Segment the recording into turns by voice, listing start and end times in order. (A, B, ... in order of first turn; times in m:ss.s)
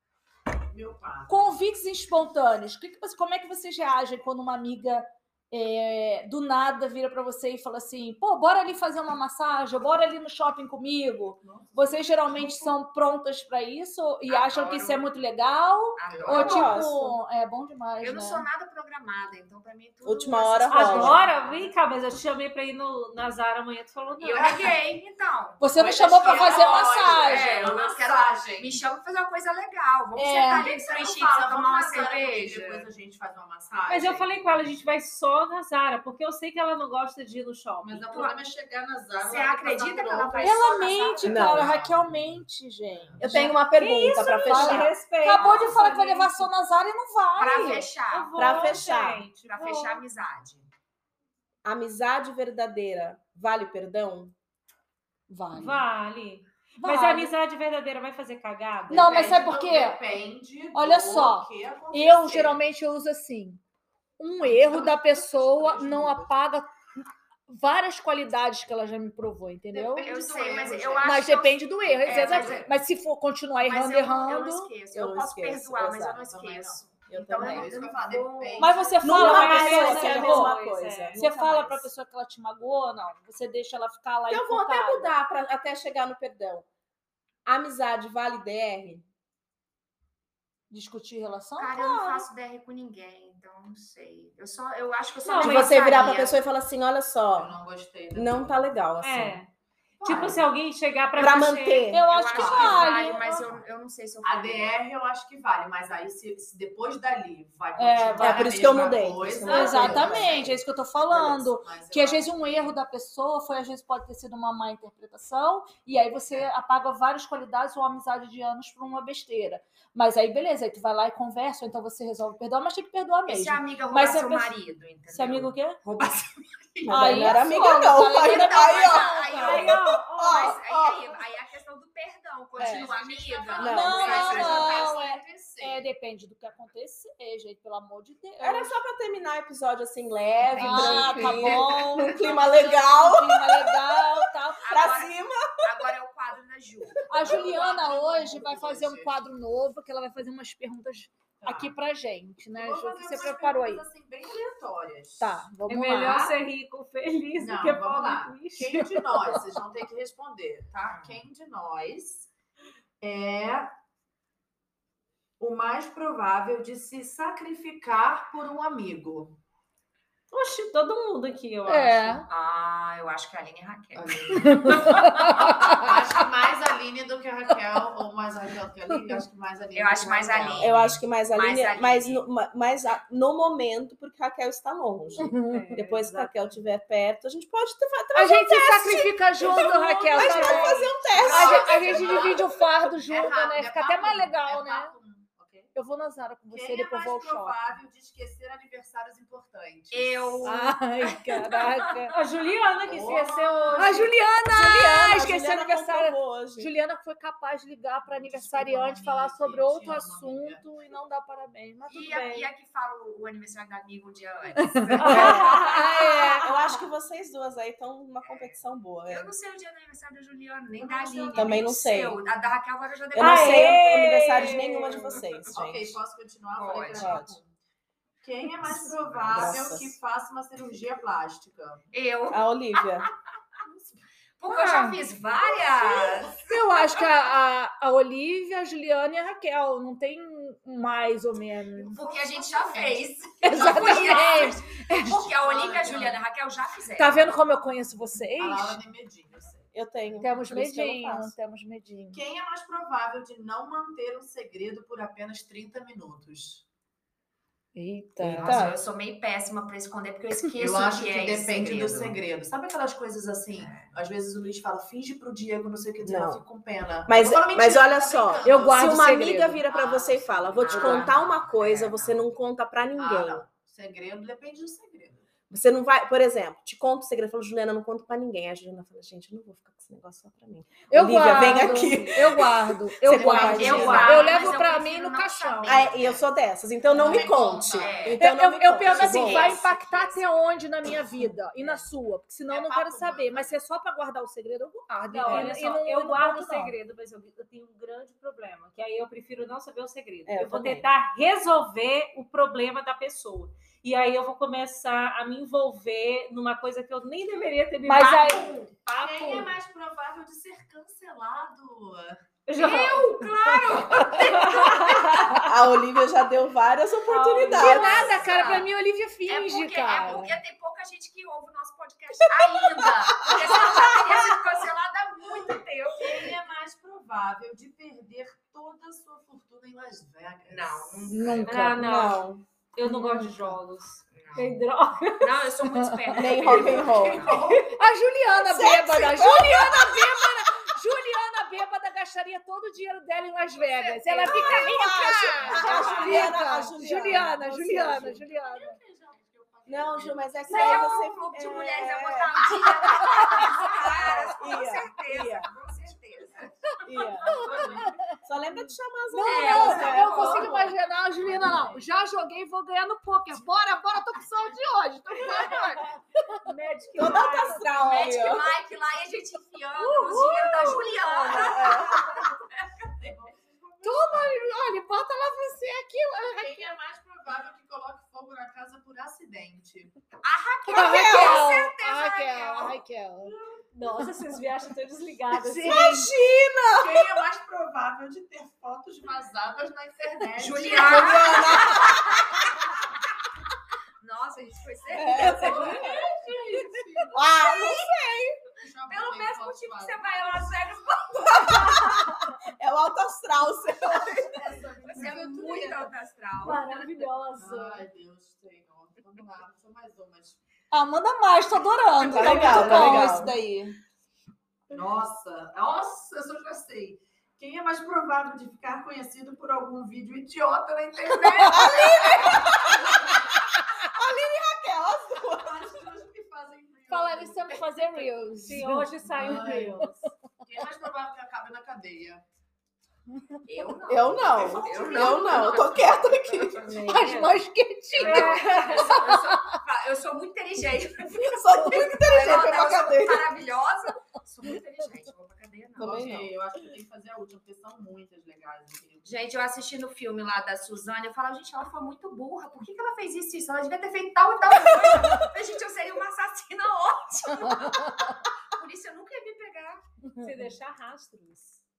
0:00.7-0:01.6 A
0:01.3-0:18.4 B
0:11.4-0:12.8 A
0:14.3-0:15.1 C
0:16.0-0:16.8 C
0:16.1-0:16.7 A
0:16.3-0:17.2 D
0:18.0-0:21.7 C
0:20.0-0:21.2 D
0:20.7-0:24.8 E
0:24.2-0:32.9 C
0:25.6-0:27.7 B
0:25.7-0:28.8 A
0:30.2-0:30.7 B
0:30.5-0:34.4 A
0:33.9-0:38.4 E
0:37.8-0:43.3 A
0:39.2-0:41.6 C
0:40.4-0:43.5 B
0:41.2-0:41.7 D
0:43.2-0:45.0 D
0:43.3-0:46.5 E
0:44.5-0:47.9 B
0:45.3-0:45.7 C
0:47.4-0:48.8 C
0:48.1-0:50.0 E
0:48.4-0:49.2 D
0:49.5-0:50.7 C
0:51.6-0:54.3 D
0:55.3-0:55.8 B
0:55.5-0:59.3 E
0:56.8-0:57.3 B
0:58.9-1:00.0 B
0:58.9-1:02.6 A
1:00.7-1:03.6 B
1:04.2-1:06.7 B
1:04.4-1:06.3 A
1:07.5-1:10.1 B
1:09.7-1:11.4 A
1:10.0-1:12.8 C
1:11.0-1:14.7 B
1:12.1-1:12.7 A
1:13.6-1:18.9 C
1:14.9-1:16.2 D
1:16.1-1:19.6 A
1:17.1-1:17.7 D
1:18.6-1:20.6 B
1:19.0-1:21.9 D
1:19.1-1:21.2 E
1:21.2-1:25.1 B
1:24.3-1:26.7 D
1:27.4-1:29.0 D
1:30.7-1:32.3 B
1:31.6-1:36.4 C
1:35.2-1:36.1 E
1:35.4-1:37.5 D
1:37.3-1:38.7 A
1:38.1-1:39.4 D
1:39.0-1:39.5 E
1:40.0-1:40.5 A
1:40.0-1:42.0 E
1:41.2-1:42.0 D
1:41.9-1:43.2 B
1:42.0-1:44.8 C
1:42.3-1:43.6 A
1:44.2-1:52.8 A
1:47.8-1:48.5 B
1:48.2-1:50.6 D
1:49.4-2:04.5 B
2:03.3-2:15.2 C
2:05.1-2:05.8 B
2:06.8-2:11.2 D
2:06.9-2:09.8 B
2:09.4-2:10.6 E
2:12.6-2:15.8 A
2:13.6-2:14.5 D
2:13.7-2:18.8 B
2:18.4-2:24.0 D
2:20.5-2:21.8 C
2:20.6-2:24.9 B
2:20.6-2:22.2 A
2:24.6-2:27.1 C
2:24.7-2:25.9 D
2:27.1-2:33.8 B
2:27.2-2:29.2 A
2:31.4-2:31.8 A
2:32.5-2:35.5 A
2:35.2-2:36.4 B
2:35.7-2:38.8 E
2:37.4-2:42.3 A
2:38.6-2:39.4 B
2:40.9-2:41.2 C
2:43.0-2:43.7 A
2:45.4-2:49.4 A
2:50.3-2:52.2 E
2:51.7-2:52.3 B
2:52.3-2:55.0 C
2:53.9-3:00.8 A
2:54.4-2:55.9 B
2:59.7-3:02.2 C
3:00.6-3:11.7 D
3:05.2-3:05.8 B
3:05.5-3:06.3 E
3:08.2-3:14.9 B
3:09.4-3:11.0 E
3:11.1-3:12.5 C
3:11.1-3:15.7 A
3:15.8-3:17.6 B
3:16.5-3:20.5 A
3:19.9-3:22.0 C
3:20.4-3:22.2 B
3:22.1-3:24.1 E
3:22.8-3:24.1 A
3:23.8-3:32.4 B
3:24.5-3:26.7 D
3:28.1-3:30.6 A
3:31.9-3:36.5 C
3:34.8-3:36.4 B
3:35.0-3:39.3 D
3:39.1-3:43.8 C
3:40.8-3:41.7 A
3:41.3-3:42.2 D
3:43.1-3:46.0 D
3:43.2-3:45.2 E
3:45.1-3:45.4 C
3:45.5-3:47.5 A
3:46.6-3:47.2 C
3:47.0-3:47.4 D
3:48.2-3:51.9 A
3:49.2-3:50.0 D
3:51.9-3:53.1 C
3:52.3-3:53.1 D
3:54.4-3:56.6 C
3:54.5-3:55.0 B
3:55.6-3:56.2 A
3:56.5-4:02.0 B
4:01.8-4:07.3 C
4:02.1-4:04.5 A
4:03.4-4:05.2 B
4:05.0-4:06.2 A
4:07.0-4:08.8 B
4:08.4-4:09.7 A
4:09.7-4:11.3 D
4:10.2-4:12.2 B
4:12.1-4:16.6 A
4:17.8-4:18.5 B
4:18.2-4:18.8 D
4:18.3-4:22.2 C
4:20.6-4:31.4 A
4:23.6-4:23.9 C
4:26.0-4:26.4 D
4:27.1-4:33.4 D
4:28.4-4:29.6 B
4:30.6-4:32.2 C
4:33.0-4:35.3 A
4:35.5-4:44.2 D
4:40.9-4:45.9 B
4:41.6-4:41.9 E
4:43.1-4:44.6 A
4:43.2-4:46.2 C
4:45.6-4:49.6 D
4:46.9-4:48.1 A
4:47.7-4:48.2 C
4:48.2-4:56.8 B
4:48.9-4:50.6 C
4:52.5-4:53.6 A
4:55.1-5:08.5 E
5:00.3-5:00.9 D
5:07.8-5:09.5 B
5:08.0-5:09.5 C
5:09.0-5:12.2 A
5:12.5-5:15.4 E
5:12.6-5:15.2 C
5:13.8-5:15.5 B
5:15.4-5:18.2 D
5:17.1-5:18.5 E
5:17.6-5:20.3 B
5:17.6-5:18.7 C
5:19.3-5:26.3 C
5:23.3-5:23.7 B
5:26.0-5:31.5 A
5:30.5-5:31.5 C
5:31.1-5:31.9 B
5:31.5-5:35.5 E
5:31.8-5:32.4 D
5:33.0-5:33.3 B
5:34.1-5:34.5 C
5:35.2-5:37.5 C
5:35.7-5:36.1 B
5:36.1-5:37.4 D
5:36.3-5:37.7 A
5:37.7-5:48.8 B
5:38.4-5:40.3 D
5:43.5-5:46.4 C
5:44.2-5:48.2 D
5:45.8-5:46.5 A
5:47.9-5:51.2 A
5:49.7-5:55.5 D
5:50.5-5:56.5 C
5:56.8-5:57.6 D
5:57.3-5:58.2 A
5:57.3-5:57.9 C
5:57.7-5:58.0 B
5:58.2-6:00.6 D
5:59.1-6:05.9 B
5:59.2-6:00.5 C
5:59.5-6:00.2 A
6:01.2-6:01.8 A
6:06.4-6:08.2 E
6:07.0-6:08.5 D
6:07.8-6:12.8 C
6:09.8-6:10.9 E
6:10.2-6:11.8 B
6:11.2-6:12.0 D
6:13.0-6:14.4 A
6:13.8-6:16.7 B
6:16.3-6:20.0 A
6:20.2-6:22.8 C
6:20.7-6:21.5 D
6:20.7-6:23.3 B
6:23.7-6:25.9 E
6:25.3-6:26.1 B
6:25.6-6:27.2 D
6:26.7-6:31.9 A
6:30.4-6:32.3 C
6:30.6-6:32.1 D
6:34.0-6:35.8 C
6:34.9-6:36.0 D
6:35.2-6:35.8 B
6:35.3-6:37.2 A
6:37.1-6:38.4 D
6:38.6-6:40.7 A
6:38.9-6:41.8 C
6:41.1-6:44.4 D
6:44.1-6:45.9 A
6:44.8-6:46.9 C
6:46.4-6:47.8 E
6:47.4-6:50.4 A
6:50.7-6:53.8 B
6:52.0-6:52.8 C
6:52.1-6:53.3 D
6:52.1-6:53.0 A
6:54.7-7:03.2 A
7:01.5-7:02.3 B
7:01.6-7:02.5 D
7:03.9-7:05.7 D
7:05.2-7:08.1 A
7:06.9-7:08.9 B
7:08.4-7:10.1 E
7:09.1-7:09.9 A
7:10.4-7:12.2 A
7:13.5-7:15.1 A
7:13.5-7:16.6 C
7:13.9-7:16.7 D
7:16.6-7:17.4 E
7:16.8-7:19.4 B
7:17.9-7:26.3 C
7:18.0-7:19.0 E
7:21.1-7:23.3 D
7:25.8-7:29.1 A
7:25.8-7:26.3 D
7:29.0-7:39.8 C
7:40.2-7:41.6 E